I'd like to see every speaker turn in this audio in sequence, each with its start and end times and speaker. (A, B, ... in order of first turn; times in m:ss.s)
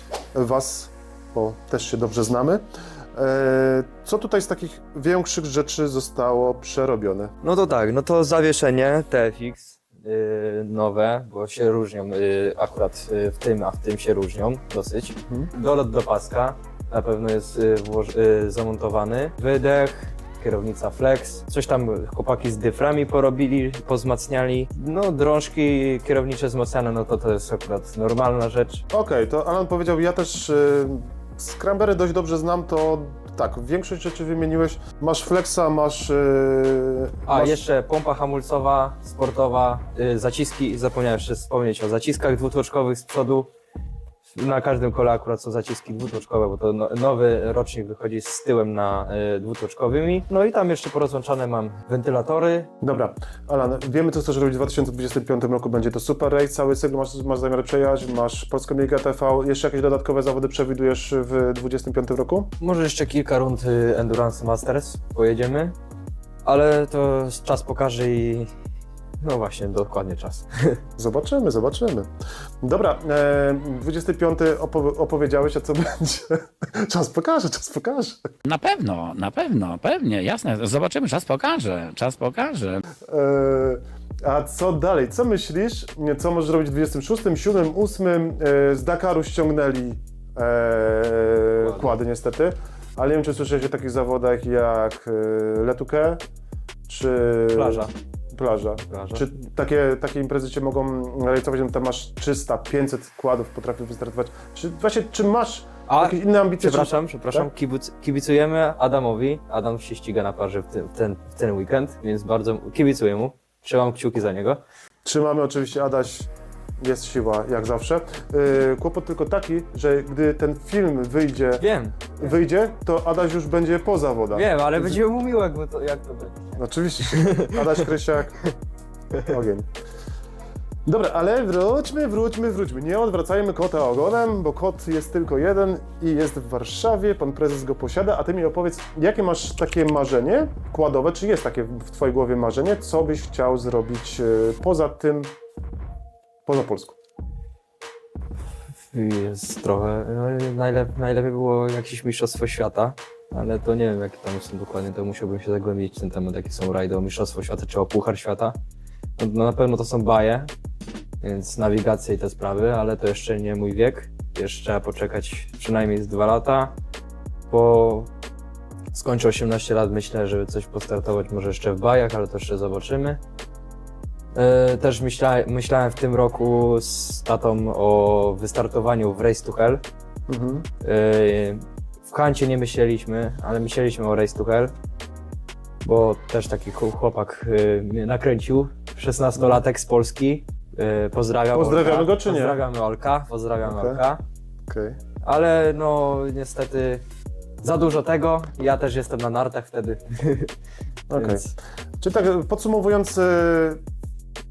0:00.3-0:07.3 A
0:07.4-0:28.8 B
0:28.9-0:37.6 A
0:37.3-0:43.5 B
0:44.3-0:52.7 B
0:52.8-1:02.5 A
1:02.6-1:05.7 B
1:06.4-1:08.5 B
1:09.2-1:10.8 B
1:11.0-1:12.1 A
1:12.6-1:18.2 A
1:18.4-1:22.8 C
1:23.1-1:36.2 A
1:31.6-1:32.0 B
1:36.9-1:47.5 A
1:37.5-1:37.9 B
1:38.9-1:39.2 B
1:45.9-1:54.6 B
1:55.0-1:56.3 A
1:56.8-2:01.6 A
2:01.6-2:02.2 B
2:02.2-2:05.0 A
2:04.3-2:07.9 B
2:06.6-2:08.5 A
2:09.1-2:09.7 A
2:10.8-2:25.3 A
2:26.4-2:27.0 A
2:28.9-2:38.5 B
2:39.2-2:40.5 B
2:41.2-2:46.7 B
2:47.5-2:48.1 B
2:48.9-2:53.2 B
2:54.3-2:59.8 B
3:00.3-3:00.7 A
3:00.8-3:04.7 B
3:05.8-3:14.2 B
3:11.5-3:12.6 A
3:13.6-3:14.0 A
3:14.7-3:15.0 A
3:15.2-3:17.0 B
3:17.6-3:20.5 B
3:21.1-3:21.5 A
3:21.1-3:21.5 B
3:22.0-3:23.8 A